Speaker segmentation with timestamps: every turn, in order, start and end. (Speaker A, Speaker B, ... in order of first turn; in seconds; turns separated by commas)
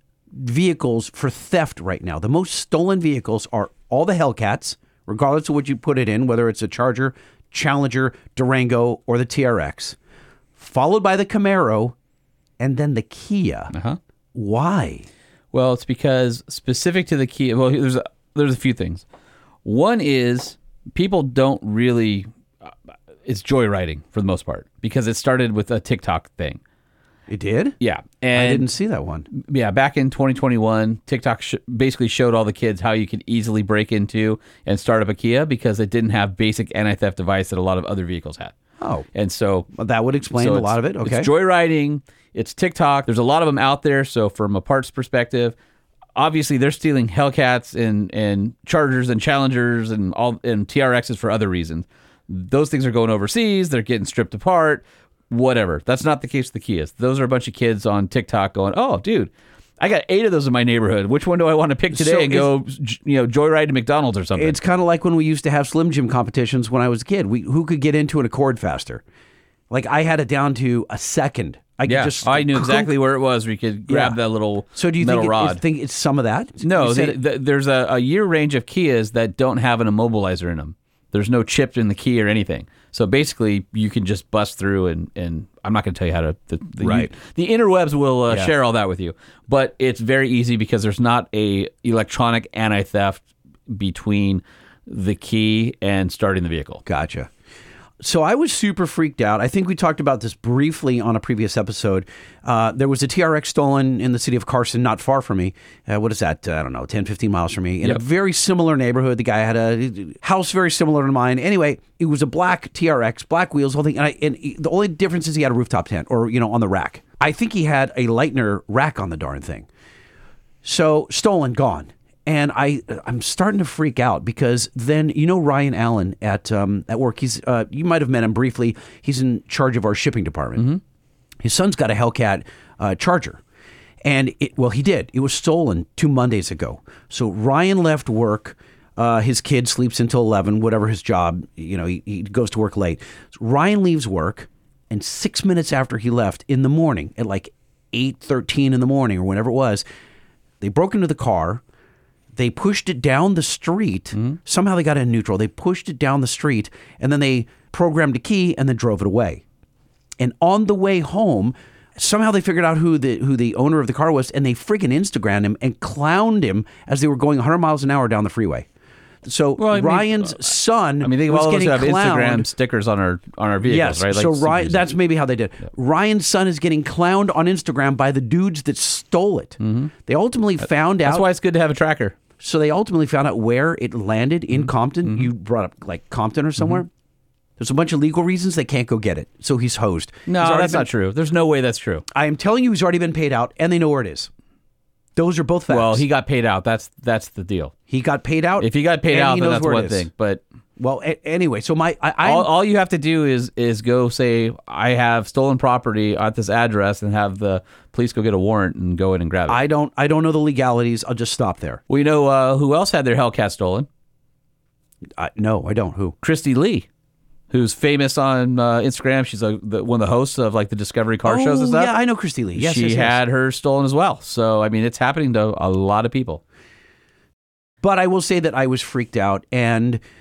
Speaker A: 0.3-10.0, Speaker A: 10.6-11.9, Speaker A: 12.6-13.7, Speaker B: 13.7-14.0, Speaker A: 14.3-15.1, Speaker B: 15.5-19.0, Speaker B: 19.6-22.7, Speaker B: 23.2-26.6, Speaker A: 27.3-27.8, Speaker B: 27.8-28.7, Speaker A: 28.3-29.3, Speaker B: 29.3-38.5, Speaker A: 38.8-39.0, Speaker B: 39.1-39.7, Speaker A: 39.7-41.3, Speaker B: 40.3-45.5, Speaker B: 46.1-64.5, Speaker A: 61.9-62.5, Speaker A: 64.3-69.0, Speaker A: 69.7-72.9, Speaker B: 71.8-75.6, Speaker A: 73.9-74.2, Speaker A: 74.7-77.2, Speaker B: 76.6-96.8, Speaker A: 86.8-87.1, Speaker A: 96.8-97.3, Speaker A: 98.0-119.7, Speaker A: 120.6-130.8, Speaker A: 131.4-133.4, Speaker A: 134.0-149.8, Speaker A: 150.6-151.6, Speaker A: 152.3-159.4, Speaker A: 160.2-168.7, Speaker A: 169.2-172.5, Speaker B: 169.6-174.9, Speaker A: 173.6-181.3, Speaker B: 179.6-179.9, Speaker B: 180.7-182.2, Speaker A: 182.4-186.9, Speaker B: 184.6-185.2, Speaker A: 187.6-190.9, Speaker B: 190.3-192.0, Speaker A: 192.1-194.3, Speaker A: 195.2-196.0, Speaker B: 195.7-197.7, Speaker A: 197.9-200.1, Speaker B: 198.6-200.4, Speaker A: 200.8-202.5, Speaker B: 202.2-209.6, Speaker A: 209.5-211.8, Speaker B: 211.9-213.9, Speaker A: 215.2-216.1, Speaker B: 216.2-216.9, Speaker B: 217.5-221.9, Speaker A: 221.2-223.2, Speaker B: 222.5-226.4, Speaker A: 227.8-230.0